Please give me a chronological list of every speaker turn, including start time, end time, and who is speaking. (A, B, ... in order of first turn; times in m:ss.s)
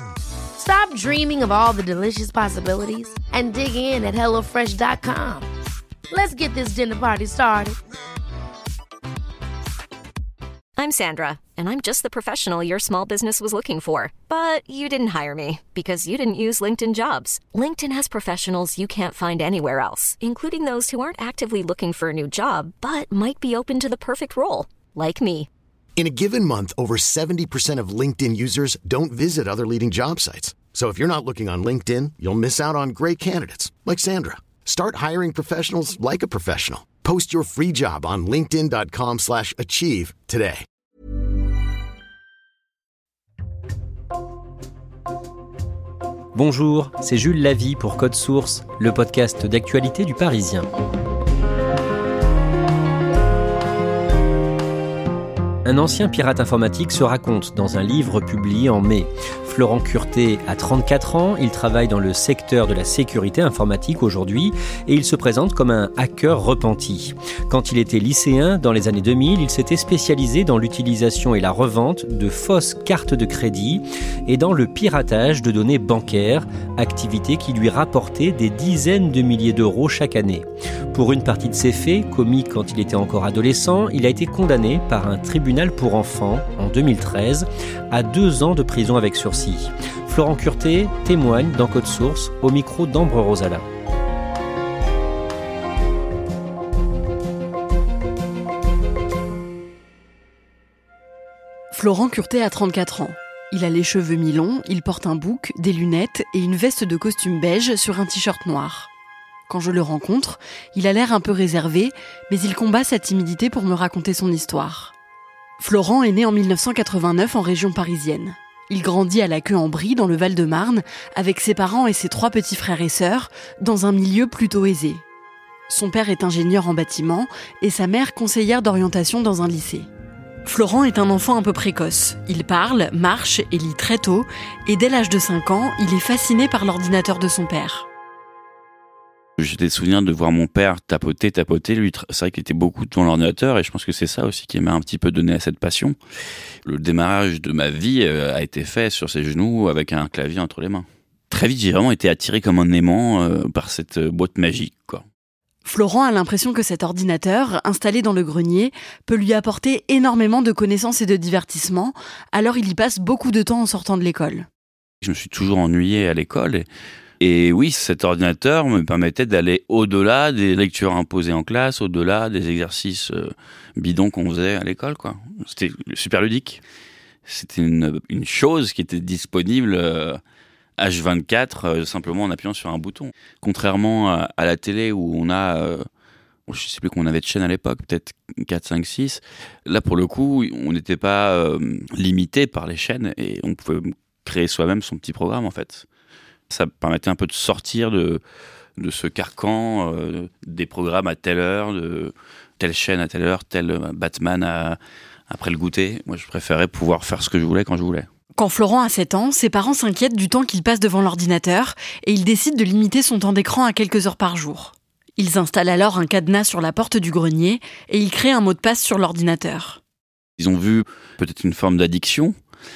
0:00.6-0:05.5 A
0:06.1-0:07.8 A
0:10.8-0:25.5 B
0:26.0-0:40.6 C
0:46.3-0:50.7 D
0:55.7-1:33.6 D
1:41.7-1:48.9 E
1:49.5-1:54.9 E
1:55.6-2:05.0 E
2:05.7-2:09.9 E
2:10.4-2:17.9 E
2:19.4-2:26.0 F
2:26.6-2:35.0 F
2:35.6-2:44.5 E
2:45.0-2:46.7 F
2:47.2-2:56.6 F
2:57.3-3:00.2 F
3:00.8-3:05.8 F
3:06.5-3:15.9 F
3:16.5-3:18.2 F
3:18.8-3:24.8 F
3:25.3-3:28.1 F
3:28.4-3:39.8 E
3:40.4-3:42.3 F